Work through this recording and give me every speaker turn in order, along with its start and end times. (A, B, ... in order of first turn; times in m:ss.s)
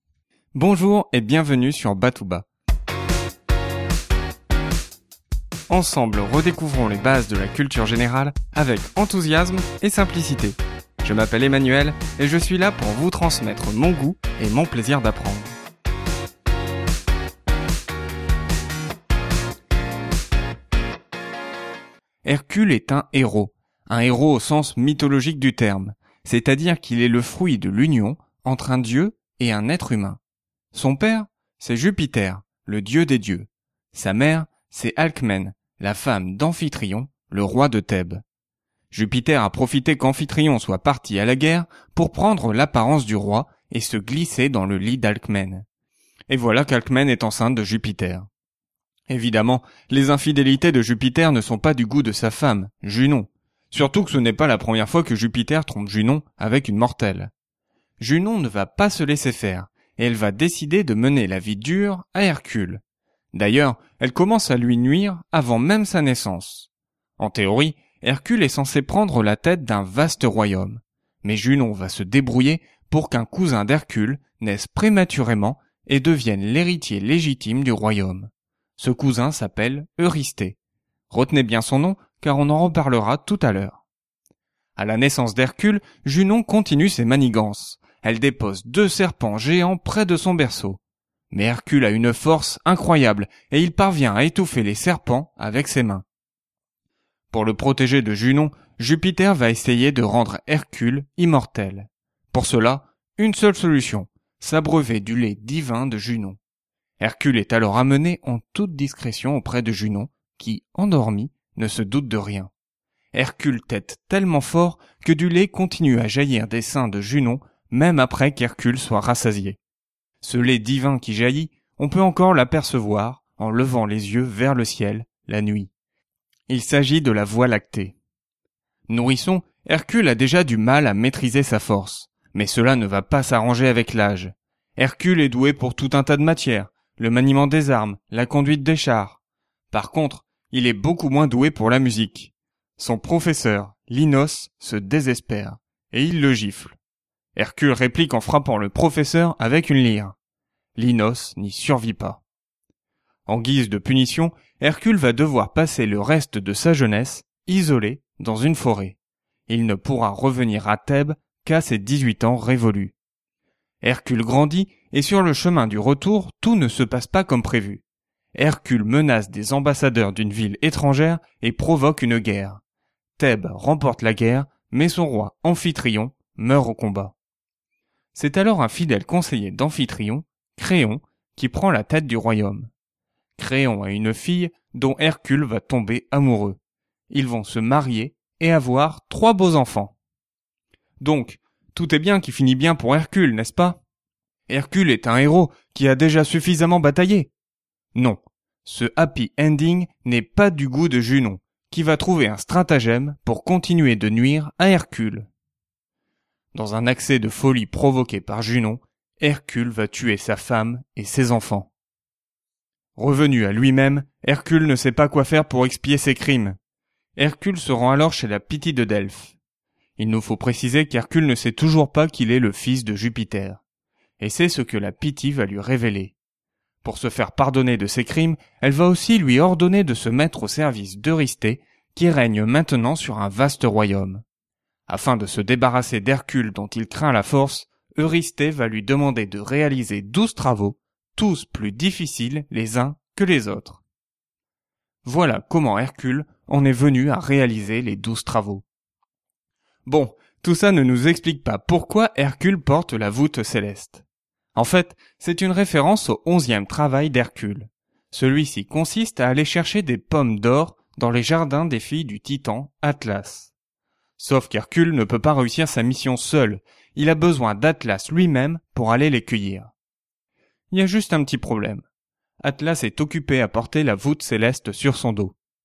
0:00.5-0:02.5 A
0:05.7-0:15.5 A
0:22.2-0:30.2 A
0:30.7-0:38.2 A
0:38.9-0:45.6 A
0:46.3-0:48.3 A
0:49.1-0:57.3 A
0:58.0-1:02.8 A
1:03.3-1:20.6 A
1:21.1-1:23.8 A
1:24.8-1:30.8 A
1:31.3-1:36.0 A
1:37.3-1:46.4 A
1:47.0-1:52.5 A
1:53.1-1:59.6 A
2:00.2-2:05.7 A
2:06.5-2:08.0 A
2:08.9-2:19.2 A
2:19.7-2:26.8 A
2:27.4-2:30.2 A
2:30.8-2:32.2 A
2:33.3-2:39.0 A
2:39.5-2:42.9 A
2:43.8-2:47.8 A
2:48.3-2:52.6 A
2:53.2-2:57.1 A
2:58.1-3:02.7 A
3:03.4-3:06.6 A
3:07.1-3:09.9 A
3:11.0-3:13.8 A
3:14.5-3:17.3 A
3:17.9-3:25.3 A
3:26.5-3:31.7 A
3:33.0-3:36.6 A
3:37.2-3:39.3 A
3:40.0-3:43.6 A
3:44.2-3:46.1 A
3:46.8-3:54.2 A
3:54.9-4:03.8 A
4:05.0-4:08.6 A
4:09.8-4:14.0 A
4:14.5-4:23.5 A
4:24.2-4:29.7 A
4:30.7-4:31.8 A
4:32.4-4:35.3 A